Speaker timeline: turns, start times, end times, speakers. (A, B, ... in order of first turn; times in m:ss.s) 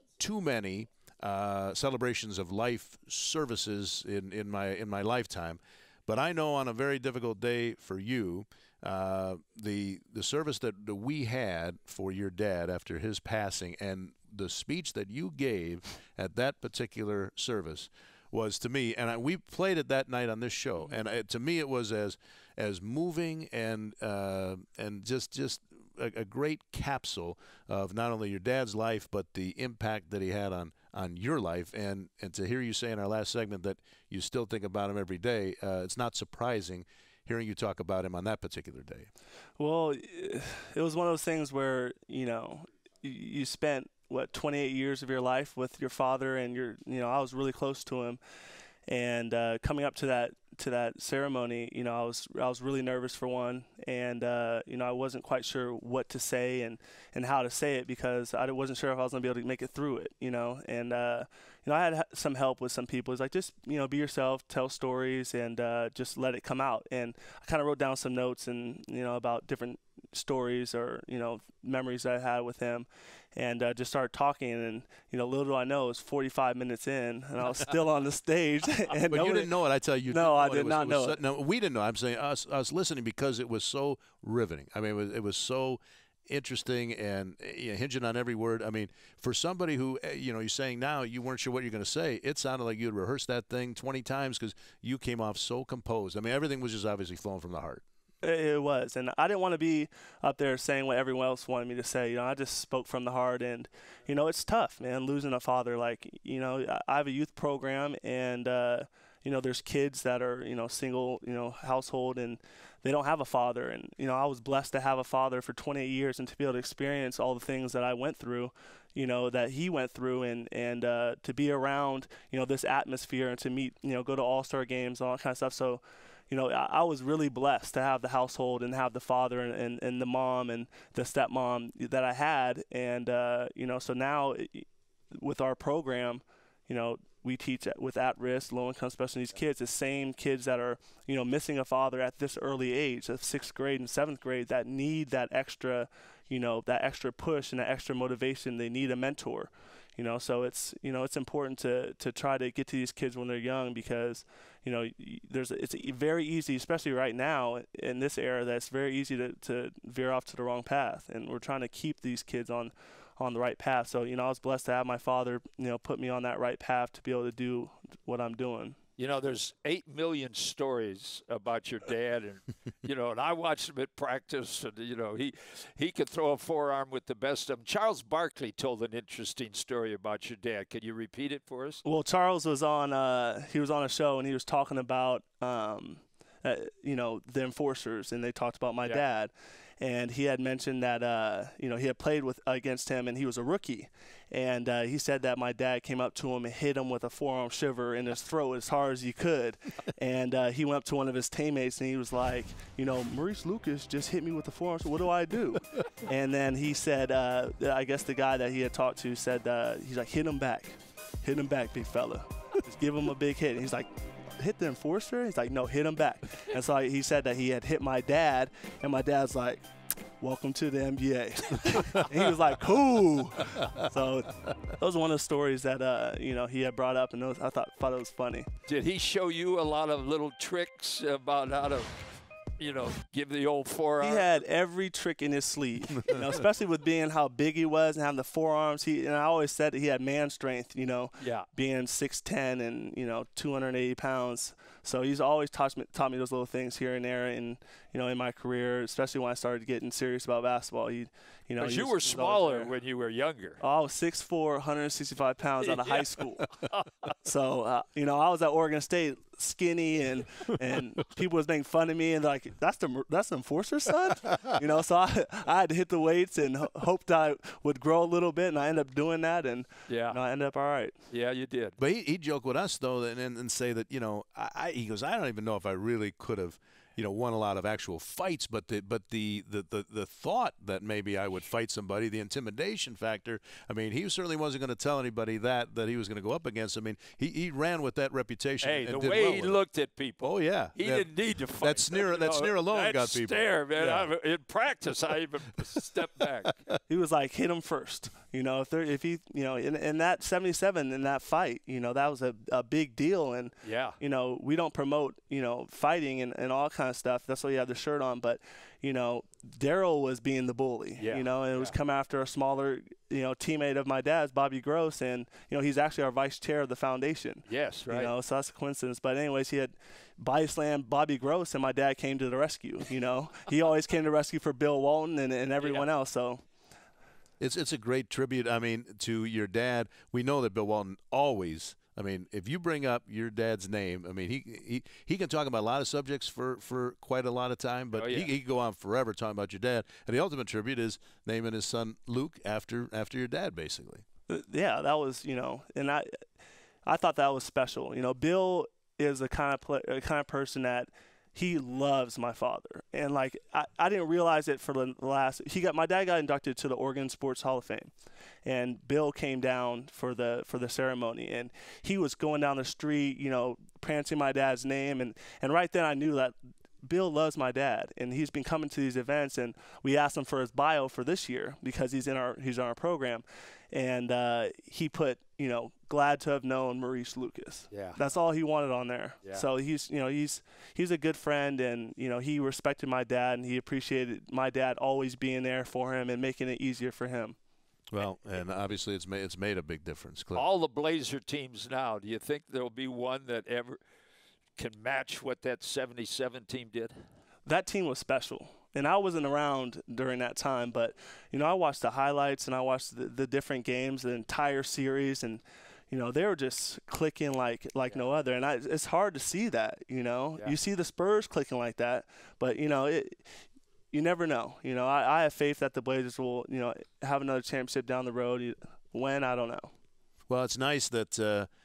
0:00.2-0:39.1 A
0:39.6-0:48.2 B
0:48.9-1:19.5 B
1:19.1-1:37.8 A
1:20.1-1:21.2 B
1:38.2-2:48.8 B
2:49.0-3:01.8 C
3:01.8-3:39.6 B
3:40.2-3:48.5 B
3:48.7-3:51.9 C
3:52.6-3:54.4 C
3:54.0-4:12.7 B
4:01.2-4:01.4 C
4:11.6-4:13.6 C
4:13.6-4:16.5 B
4:15.6-4:17.1 C
4:17.2-4:31.0 B
4:29.9-4:30.2 C
4:31.1-4:31.8 C
4:31.8-4:49.6 A
4:48.6-4:56.6 C
4:50.2-4:54.1 A
4:56.9-5:26.4 B
5:03.6-5:04.0 C
5:11.0-5:11.7 C
5:17.5-5:18.1 C
5:27.4-5:44.0 A
5:37.9-5:38.3 C
5:44.3-5:46.1 B
5:46.8-5:57.9 B
5:58.4-6:27.4 B
6:17.7-6:18.0 C
6:27.9-6:30.5 A
6:30.3-6:33.8 C
6:34.6-6:36.9 C
6:37.4-6:53.3 B
6:53.9-6:59.7 B
7:00.3-7:01.5 A